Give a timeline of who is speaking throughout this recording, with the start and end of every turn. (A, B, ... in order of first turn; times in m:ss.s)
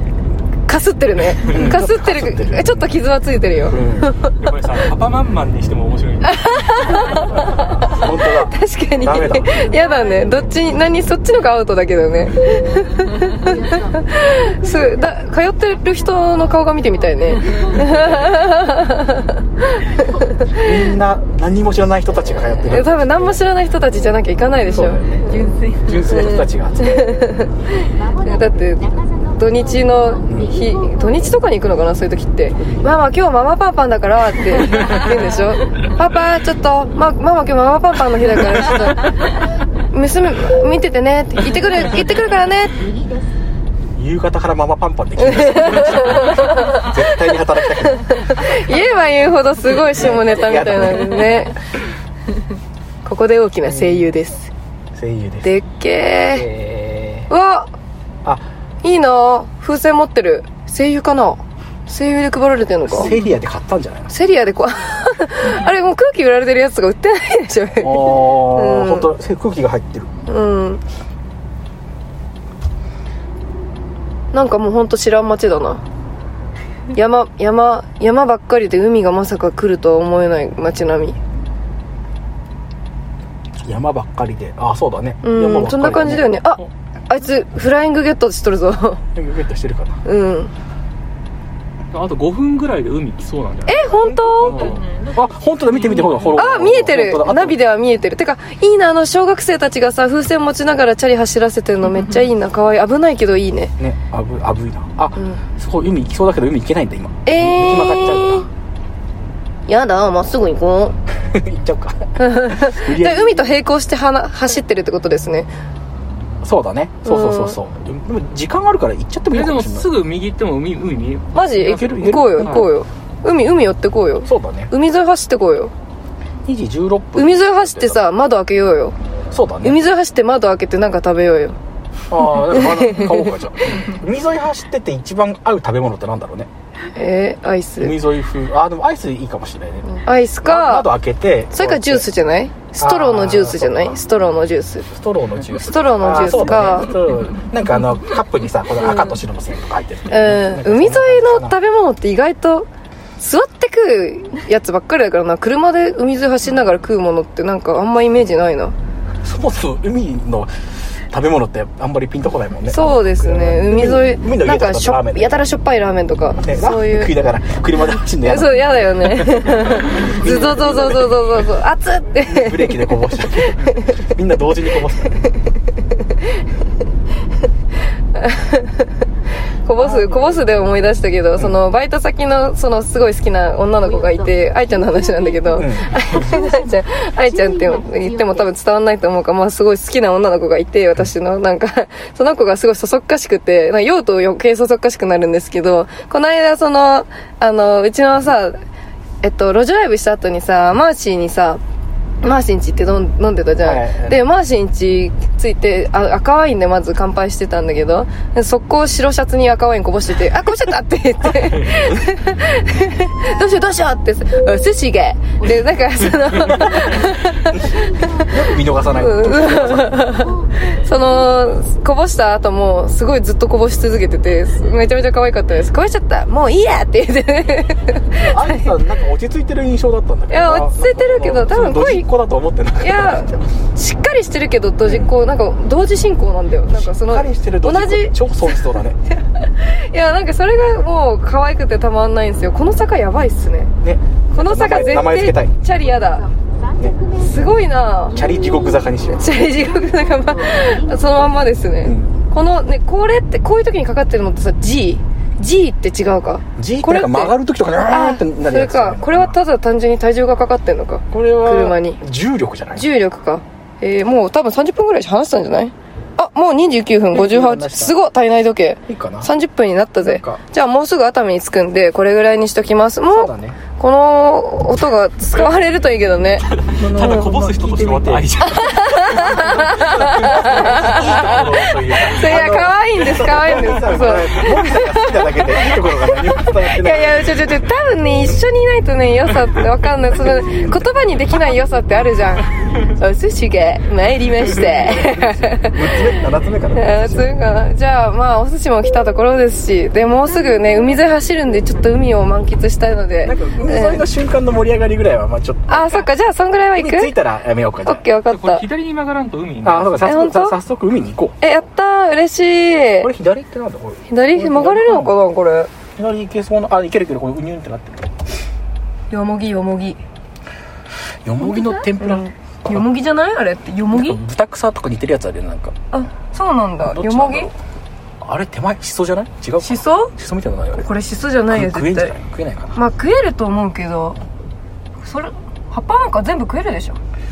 0:00.7-0:04.4 A
0:01.4-0:02.8 B
0:03.6-0:04.1 B
0:04.4-0:07.8 C
0:06.2-0:20.8 A
0:07.8-0:09.7 B
0:09.5-0:10.4 D
0:12.7-0:15.3 D
0:15.9-0:19.0 D
0:17.8-0:18.2 B
0:19.9-0:20.5 D
0:20.6-0:23.4 B
0:22.5-0:39.4 A
0:24.6-0:27.1 B
0:25.1-0:25.8 D
0:27.7-0:31.5 D
0:30.3-0:30.5 B
0:32.5-0:32.9 B
0:34.7-0:35.2 D
0:39.9-0:42.8 A
0:41.6-0:43.3 D
0:44.0-0:48.3 B
0:45.2-0:47.1 A
0:47.9-0:51.6 A
0:48.7-0:49.1 D
0:49.8-0:51.5 B
0:53.0-0:54.5 A
0:53.7-0:54.0 B
0:54.9-0:55.5 B
0:55.4-0:56.5 A
0:56.3-0:57.3 B
0:57.3-0:57.7 A
0:58.8-1:03.1 A
1:02.9-1:04.1 B
1:04.1-1:09.1 A
1:07.8-1:10.1 B
1:10.3-1:10.8 A
1:14.3-1:15.8 A
1:16.9-1:21.2 A
1:23.6-1:26.6 B
1:25.2-1:29.0 A
1:29.1-1:30.0 B
1:30.0-1:30.5 A
1:31.9-1:36.4 C
1:33.6-1:34.8 A
1:34.0-1:37.6 B
1:36.3-1:43.7 A
1:43.8-1:48.5 B
1:45.2-1:45.4 A
1:47.2-1:48.4 A
1:49.7-1:51.0 A
1:51.2-1:53.5 B
1:52.2-1:55.5 A
1:56.4-1:59.9 B
1:57.0-1:57.6 A
1:59.3-2:02.7 C
2:01.3-2:05.7 A
2:01.6-2:02.7 B
2:04.2-2:04.7 B
2:06.4-2:08.0 B
2:07.2-2:08.9 A
2:09.3-2:09.9 B
2:09.6-2:11.6 A
2:12.1-2:16.5 B
2:12.5-2:13.3 A
2:16.9-2:18.0 A
2:17.8-2:22.1 B
2:19.9-2:20.9 A
2:21.5-2:24.9 A
2:22.8-2:24.0 B
2:24.9-2:31.6 B
2:25.5-2:27.0 A
2:30.1-2:32.7 A
2:33.2-2:38.7 A
2:39.2-2:45.4 B
2:42.7-2:47.1 A
2:46.4-2:51.4 B
2:48.2-2:53.0 A
2:52.2-2:55.3 B
2:58.1-2:58.9 A
2:59.6-3:18.6 A
2:59.8-3:00.2 B
3:03.8-3:08.6 D
3:05.6-3:06.2 B
3:19.2-3:21.6 A
3:22.2-3:38.0 A
3:23.6-3:24.2 B
3:31.2-3:32.0 B
3:35.4-3:41.5 D
3:36.4-3:37.1 B
3:38.2-3:40.0 B
3:38.9-3:48.7 A
3:48.2-3:53.4 B
3:50.3-3:52.1 A
3:52.8-3:58.6 A
3:54.8-3:55.1 B
3:56.7-3:59.0 B
3:59.3-4:03.7 A
4:03.8-4:05.5 B
4:04.3-4:06.2 A
4:05.7-4:11.6 D
4:07.2-4:08.2 A
4:08.1-4:09.4 B
4:09.1-4:22.0 A
4:11.8-4:12.2 B
4:16.6-4:19.4 B
4:21.1-4:22.9 B
4:22.7-4:36.5 A
4:27.1-4:27.9 B
4:28.9-4:29.3 B
4:30.0-4:30.4 B
4:33.1-4:33.6 B
4:36.4-4:41.3 C
4:36.7-4:47.4 B
4:38.4-4:55.9 A
4:50.1-4:50.9 B
4:51.3-4:52.4 D
4:54.6-4:57.4 B
4:56.7-5:04.0 A
5:00.4-5:01.0 D
5:03.2-5:06.1 B
5:05.7-5:07.1 A
5:06.7-5:08.1 B
5:07.8-5:08.6 A
5:08.2-5:10.2 C
5:09.6-5:11.4 B
5:10.0-5:10.6 A
5:11.4-5:13.1 A
5:13.0-5:15.2 B
5:14.1-5:15.7 A
5:16.0-5:18.2 B
5:19.1-5:20.0 A
5:21.2-5:22.8 B
5:21.4-5:24.2 A
5:23.9-5:25.8 B
5:25.9-5:27.5 A
5:26.8-5:27.5 B
5:28.2-5:30.9 B
5:29.6-5:30.1 A
5:30.7-5:32.2 A
5:31.5-5:32.8 B
5:32.7-5:34.2 A
5:35.0-5:37.0 A